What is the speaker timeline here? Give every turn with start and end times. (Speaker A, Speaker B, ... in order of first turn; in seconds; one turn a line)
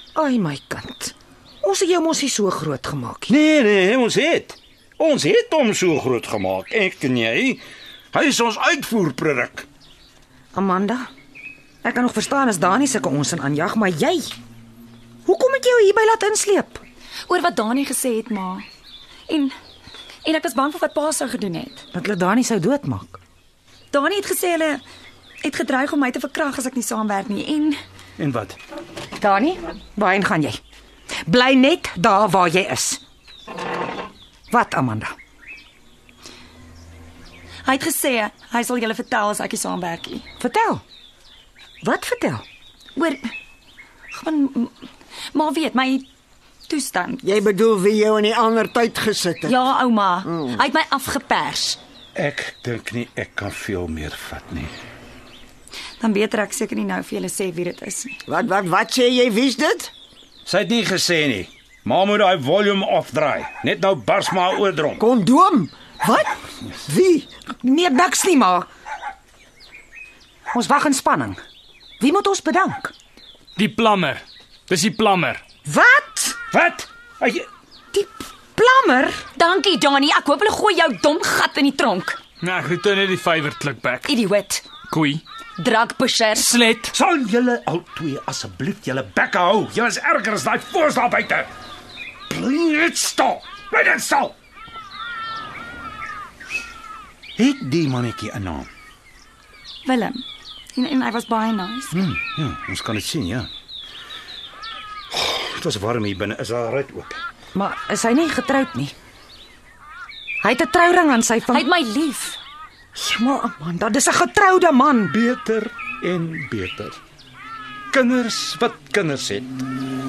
Speaker A: 0.1-3.3
Speaker B: 3.3-7.6
Speaker B: 8.1-9.7
Speaker A: 10.5-11.1
Speaker A: 11.8-14.3
Speaker A: 15.3-16.8
Speaker C: 17.3-18.6
Speaker C: 19.3-19.5
Speaker C: 20.2-21.9
Speaker A: 21.9-23.2
Speaker C: 23.9-24.8
Speaker C: 25.4-27.8
Speaker B: 28.2-28.6
Speaker A: 29.2-30.6
Speaker A: 31.2-33.0
Speaker A: 34.5-35.1
Speaker C: 37.6-40.3
Speaker A: 40.4-40.8
Speaker A: 41.8-42.4
Speaker C: 43.0-43.2
Speaker C: 44.1-44.8
Speaker C: 45.3-46.1
Speaker C: 46.7-47.2
Speaker D: 47.2-49.6
Speaker C: 49.5-51.8
Speaker B: 52.1-54.7
Speaker C: 56.0-58.2
Speaker D: 58.3-59.9
Speaker B: 60.5-65.0
Speaker D: 65.0-67.3
Speaker A: 67.6-68.7
Speaker A: 70.5-71.4
Speaker A: 72.0-72.9
Speaker E: 73.6-75.4
Speaker A: 75.7-76.4
Speaker B: 76.5-77.5
Speaker A: 77.9-79.2
Speaker C: 79.4-82.2
Speaker E: 82.4-84.1
Speaker C: 84.1-84.7
Speaker E: 84.9-85.2
Speaker C: 85.6-86.5
Speaker E: 86.4-87.0
Speaker B: 86.9-91.5
Speaker B: 92.3-94.3
Speaker B: 97.4-98.7
Speaker C: 99.8-100.2
Speaker C: 100.8-102.0
Speaker B: 101.9-103.5
Speaker B: 105.1-107.2
Speaker A: 107.5-108.9
Speaker A: 110.4-111.7
Speaker C: 111.5-112.4
Speaker A: 113.0-115.2
Speaker B: 115.1-117.0
Speaker B: 117.9-119.7